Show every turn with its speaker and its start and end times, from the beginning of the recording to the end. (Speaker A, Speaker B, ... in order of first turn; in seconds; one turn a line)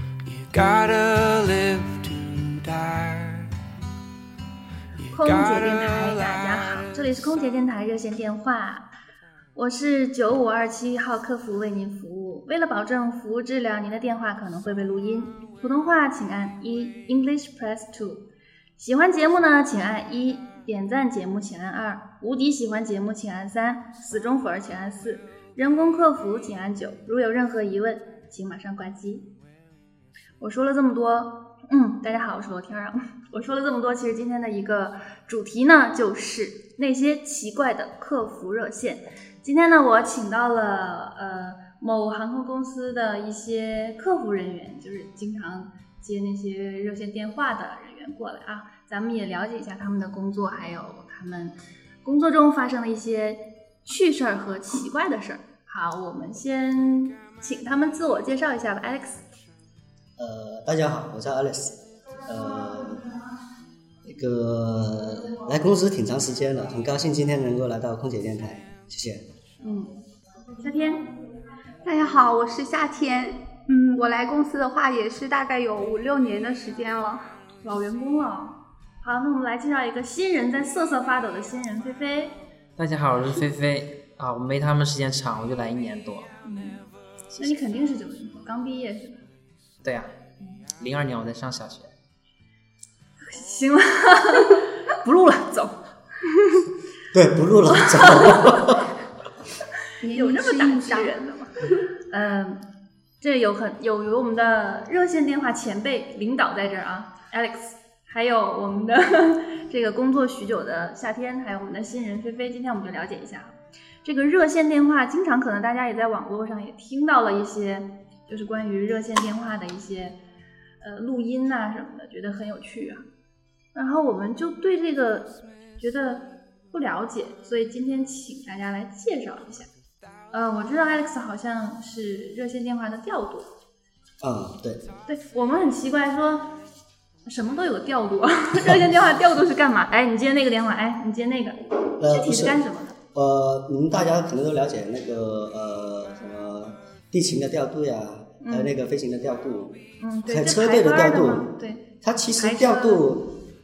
Speaker A: 0.2-3.5
Speaker A: 5.0-7.0
Speaker B: 5.1-8.9
Speaker B: 9.6-18.2
Speaker B: 18.8-29.3
Speaker B: 30.4-59.2
Speaker C: 60.2-63.2
Speaker C: 64.0-69.3
Speaker B: 69.6-70.0
Speaker B: 70.6-71.0
Speaker D: 71.8-77.2
Speaker B: 77.6-82.3
Speaker E: 82.8-86.3
Speaker B: 86.4-86.8
Speaker B: 87.4-89.2
Speaker E: 89.8-90.1
Speaker E: 90.8-91.9
Speaker B: 93.2-96.7
Speaker C: 97.1-98.9
Speaker B: 97.7-98.8
Speaker D: 100.0-101.2
Speaker B: 100.1-102.6
Speaker B: 103.2-120.2
Speaker B: 120.8-123.0
Speaker B: 123.7-129.7
Speaker B: 130.3-133.5
Speaker C: 134.2-134.9
Speaker B: 135.1-136.5
Speaker B: 137.3-143.0
Speaker C: 142.0-142.6
Speaker C: 143.1-153.4
Speaker B: 148.4-148.7
Speaker B: 150.0-153.0